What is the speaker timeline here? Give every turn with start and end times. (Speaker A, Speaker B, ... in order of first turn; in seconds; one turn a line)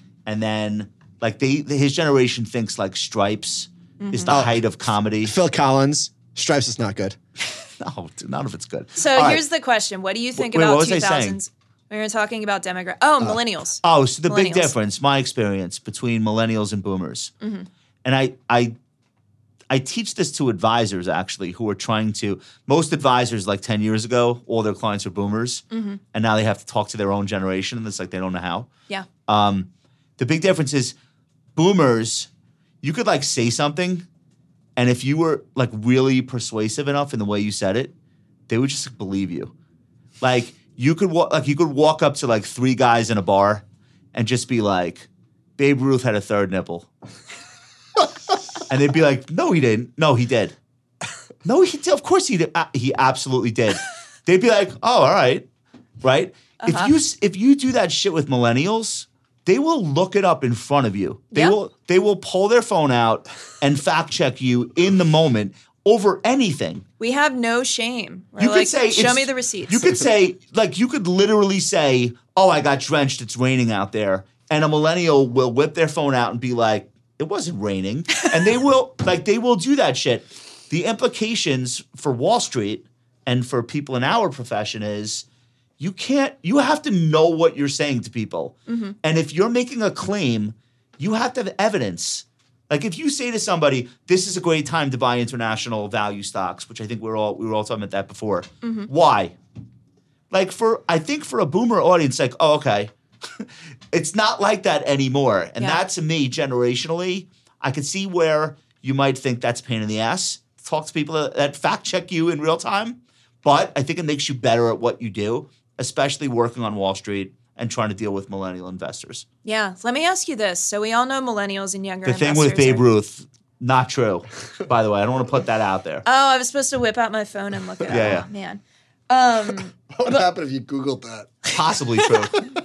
Speaker A: 0.3-5.3
Speaker B: 4.0-4.4
Speaker C: 4.3-4.6
Speaker C: 5.2-7.2
Speaker A: 7.8-9.4
Speaker B: 8.9-14.7
Speaker A: 10.3-11.4
Speaker A: 13.8-17.3
Speaker B: 17.4-17.7
Speaker A: 18.0-18.7
Speaker A: 19.7-28.7
Speaker B: 25.7-26.0
Speaker A: 29.3-30.9
Speaker A: 31.6-32.3
Speaker A: 32.8-34.1
Speaker A: 34.8-37.9
Speaker A: 38.5-39.5
Speaker A: 40.2-46.9
Speaker A: 48.7-50.6
Speaker A: 51.4-55.5
Speaker A: 56.0-66.8
Speaker B: 56.6-56.9
Speaker B: 67.0-70.0
Speaker A: 68.4-85.3
Speaker A: 85.8-99.3
Speaker B: 88.7-89.0
Speaker B: 98.6-98.9
Speaker A: 100.3-119.3
Speaker B: 119.4-122.8
Speaker A: 122.0-126.0
Speaker B: 126.0-130.2
Speaker A: 127.9-128.3
Speaker C: 129.9-131.5
Speaker A: 131.5-132.4
Speaker B: 132.0-132.2